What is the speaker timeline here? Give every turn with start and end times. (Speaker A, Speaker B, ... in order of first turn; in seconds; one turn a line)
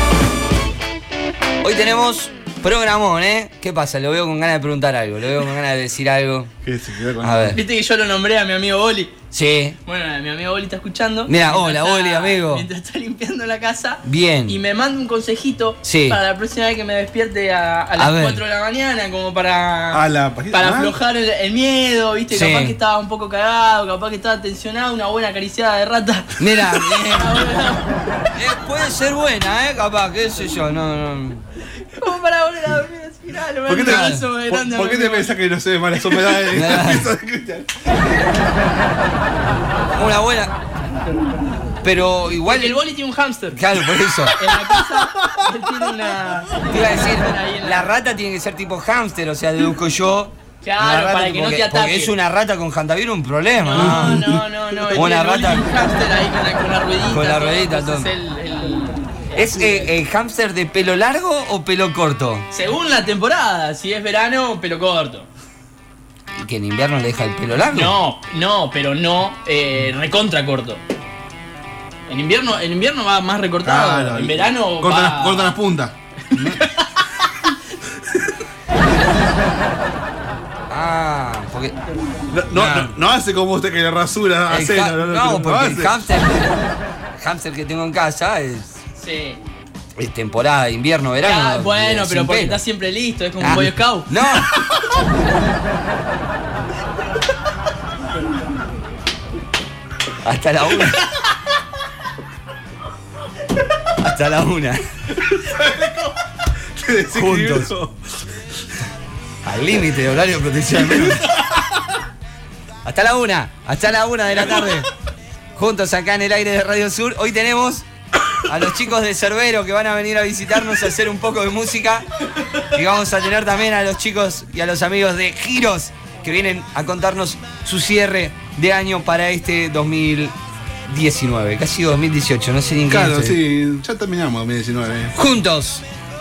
Speaker A: 1.6-6.5
Speaker B: 6.6-7.6
Speaker A: 7.2-7.6
Speaker C: 7.5-9.1
Speaker A: 9.3-9.8
Speaker C: 9.9-28.4
Speaker A: 11.3-12.7
Speaker A: 14.0-14.6
Speaker A: 15.8-16.2
Speaker A: 18.0-18.4
Speaker B: 19.9-20.9
Speaker A: 22.3-22.8
Speaker A: 26.4-27.5
Speaker A: 28.3-31.4
Speaker C: 31.9-35.3
Speaker B: 33.7-37.9
Speaker A: 33.9-34.2
Speaker A: 36.5-37.1
Speaker A: 39.9-40.5
Speaker A: 41.8-42.8
Speaker C: 42.5-43.6
Speaker A: 43.5-44.4
Speaker C: 44.4-47.9
Speaker B: 44.5-45.5
Speaker A: 46.7-54.4
Speaker C: 50.6-52.1
Speaker C: 53.6-59.9
Speaker B: 53.7-55.1
Speaker A: 54.9-55.6
Speaker A: 57.1-58.1
Speaker A: 59.4-62.5
Speaker C: 62.5-65.3
Speaker A: 66.3-68.0
Speaker C: 67.7-70.8
Speaker C: 72.1-75.5
Speaker B: 73.6-75.9
Speaker C: 76.3-77.6
Speaker A: 76.3-76.6
Speaker B: 78.0-78.4
Speaker A: 80.7-81.8
Speaker B: 82.3-86.1
Speaker A: 82.5-82.9
Speaker A: 84.5-86.6
Speaker A: 87.2-88.8
Speaker C: 88.9-89.4
Speaker A: 90.0-92.6
Speaker C: 91.2-94.1
Speaker A: 93.4-94.7
Speaker A: 100.2-101.1
Speaker A: 104.0-104.9
Speaker B: 105.2-106.1
Speaker B: 106.7-108.0
Speaker A: 107.1-107.7
Speaker A: 109.4-111.2
Speaker B: 110.8-111.9
Speaker A: 112.8-114.9
Speaker A: 115.5-117.9
Speaker A: 118.4-122.1
Speaker A: 122.6-130.3
Speaker A: 130.9-133.4
Speaker B: 132.9-135.2
Speaker A: 135.1-135.8